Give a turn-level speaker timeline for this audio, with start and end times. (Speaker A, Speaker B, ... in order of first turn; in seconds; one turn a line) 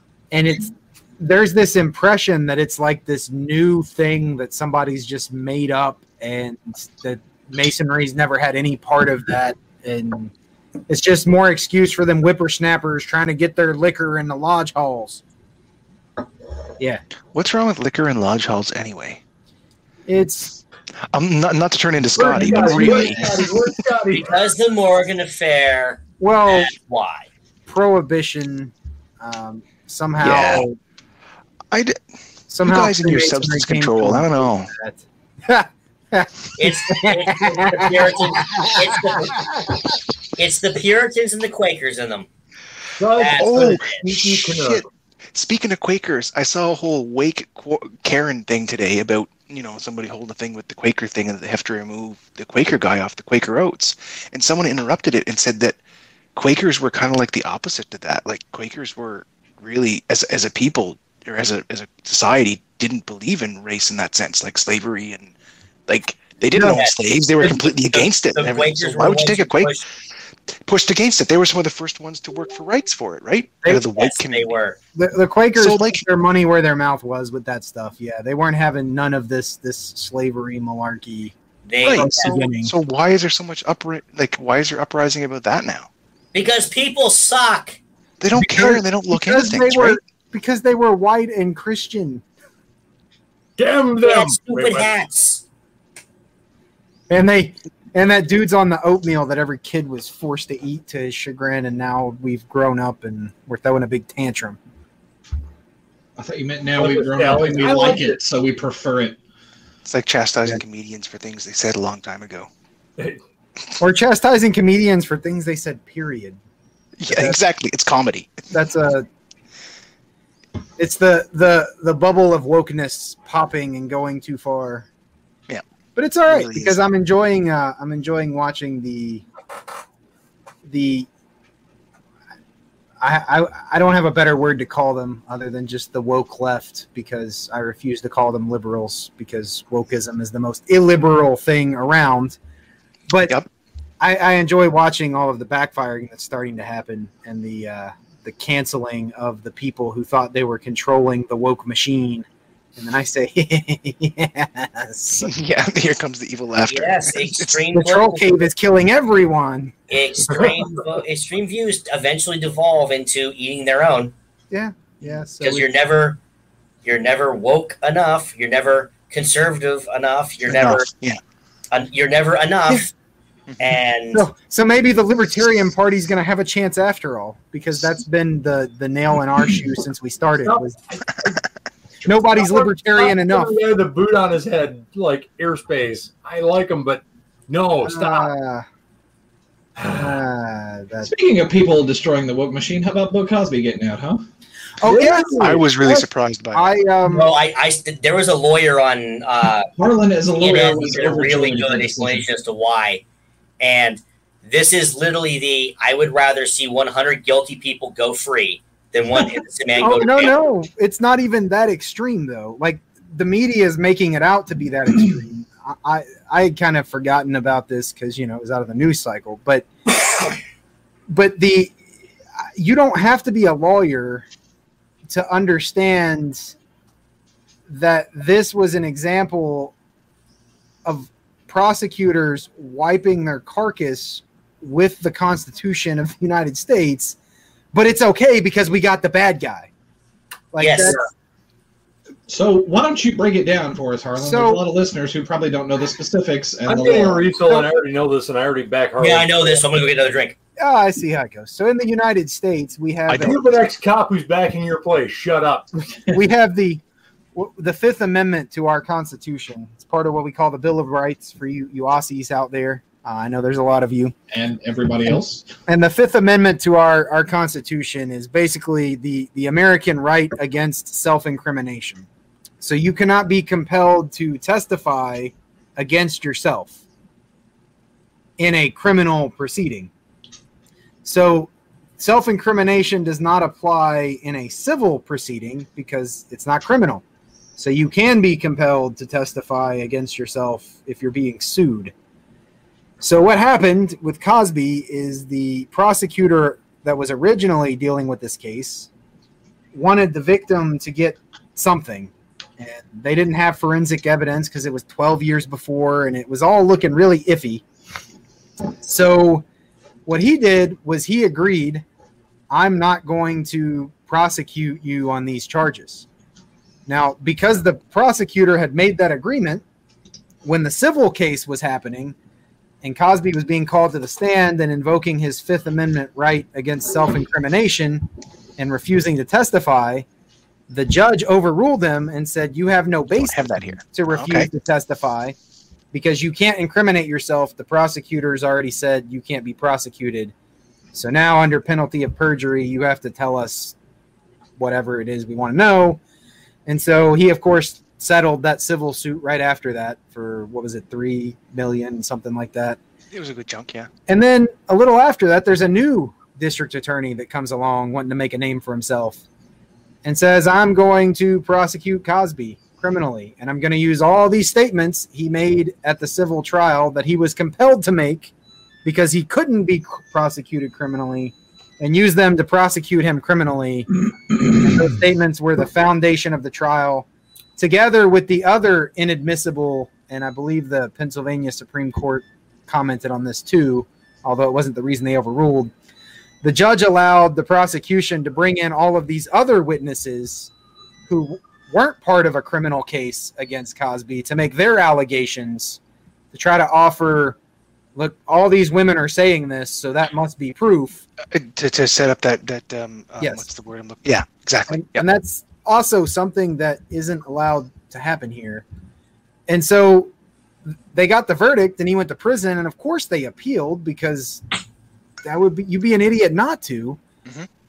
Speaker A: 0.3-10.3
Speaker A: 10.9-15.2
Speaker B: 17.3-19.2
Speaker A: 20.1-20.6
Speaker B: 21.1-23.7
Speaker C: 22.2-24.5
Speaker D: 22.3-23.3
Speaker E: 24.1-27.3
Speaker A: 26.2-26.7
Speaker A: 27.7-30.8
Speaker B: 30.2-30.7
Speaker B: 31.7-32.0
Speaker A: 32.5-39.8
Speaker B: 32.6-34.7
Speaker E: 36.6-39.4
Speaker E: 40.4-42.3
Speaker C: 43.0-44.8
Speaker E: 43.2-44.0
Speaker B: 43.4-55.8
Speaker B: 56.4-65.3
Speaker B: 65.9-69.8
Speaker A: 66.5-66.8
Speaker E: 66.6-69.8
Speaker B: 70.7-74.5
Speaker E: 73.9-74.8
Speaker A: 75.0-81.3
Speaker B: 75.6-76.0
Speaker E: 81.7-82.4
Speaker A: 81.8-82.7
Speaker B: 81.8-85.9
Speaker E: 86.3-87.8
Speaker B: 88.2-90.0
Speaker A: 88.3-92.2
Speaker C: 93.6-94.9
Speaker E: 94.0-95.4
Speaker A: 97.1-104.6
Speaker D: 106.2-109.2
Speaker C: 106.8-108.2
Speaker B: 109.8-112.5
Speaker A: 113.8-116.4
Speaker B: 117.0-118.5
Speaker A: 117.1-117.4
Speaker A: 118.5-119.1
Speaker A: 120.8-124.9
Speaker A: 126.0-129.2
Speaker B: 126.3-126.8
Speaker A: 130.7-131.1
Speaker A: 133.0-142.4
Speaker A: 143.1-143.4
Speaker A: 144.0-152.2
Speaker A: 152.8-155.3
Speaker B: 155.2-157.6
Speaker E: 156.7-158.4
Speaker A: 157.7-160.6
Speaker E: 159.9-164.1
Speaker A: 164.5-165.7
Speaker E: 165.4-166.2
Speaker E: 166.8-170.9
Speaker B: 170.5-171.2
Speaker E: 171.7-172.9
Speaker E: 173.6-174.3
Speaker A: 174.1-180.8
Speaker C: 180.4-181.4
Speaker A: 182.1-183.5
Speaker C: 182.2-188.3
Speaker A: 187.8-188.7
Speaker C: 189.8-190.2
Speaker A: 189.9-191.1
Speaker D: 191.0-194.2
Speaker A: 194.8-197.3
Speaker C: 194.8-195.6
Speaker B: 195.4-196.8
Speaker E: 197.1-199.7
Speaker D: 199.8-202.2
Speaker E: 200.3-203.0
Speaker E: 203.6-210.3
Speaker A: 209.8-219.7
Speaker A: 221.1-221.8
Speaker A: 222.6-224.2
Speaker A: 225.1-226.5
Speaker A: 227.7-229.7
Speaker A: 230.8-237.2
Speaker A: 237.7-239.7
Speaker A: 240.5-241.0
Speaker E: 240.6-241.0
Speaker D: 242.3-247.3
Speaker A: 244.2-244.6
Speaker C: 246.7-249.6
Speaker E: 249.0-250.4
Speaker A: 250.6-253.4
Speaker C: 253.1-255.7
Speaker A: 256.1-256.8
Speaker A: 257.4-264.1
Speaker D: 264.3-265.5
Speaker A: 265.7-272.1
Speaker A: 272.6-276.8
Speaker A: 278.4-279.9
Speaker A: 281.0-287.0
Speaker A: 287.6-291.9
Speaker A: 293.0-298.9
Speaker A: 299.7-307.6
Speaker A: 308.8-309.4
Speaker A: 310.1-311.9
Speaker A: 312.5-316.1
Speaker A: 316.9-319.6
Speaker A: 320.4-322.1
Speaker A: 322.8-330.1
Speaker A: 330.7-335.4
Speaker B: 333.1-334.5
Speaker A: 335.9-340.3
Speaker A: 340.9-343.8
Speaker A: 344.6-346.0
Speaker A: 346.7-352.8
Speaker B: 353.1-353.9
Speaker A: 354.1-359.2
Speaker A: 360.0-368.3
Speaker A: 368.9-377.1
Speaker A: 377.6-385.7
Speaker A: 386.4-390.5
Speaker A: 391.1-395.8
Speaker A: 396.3-397.4
Speaker A: 398.0-401.0
Speaker B: 401.2-405.1
Speaker A: 403.2-403.5
Speaker A: 404.7-408.6
Speaker A: 409.5-410.1
Speaker A: 410.9-414.4
Speaker A: 415.2-417.0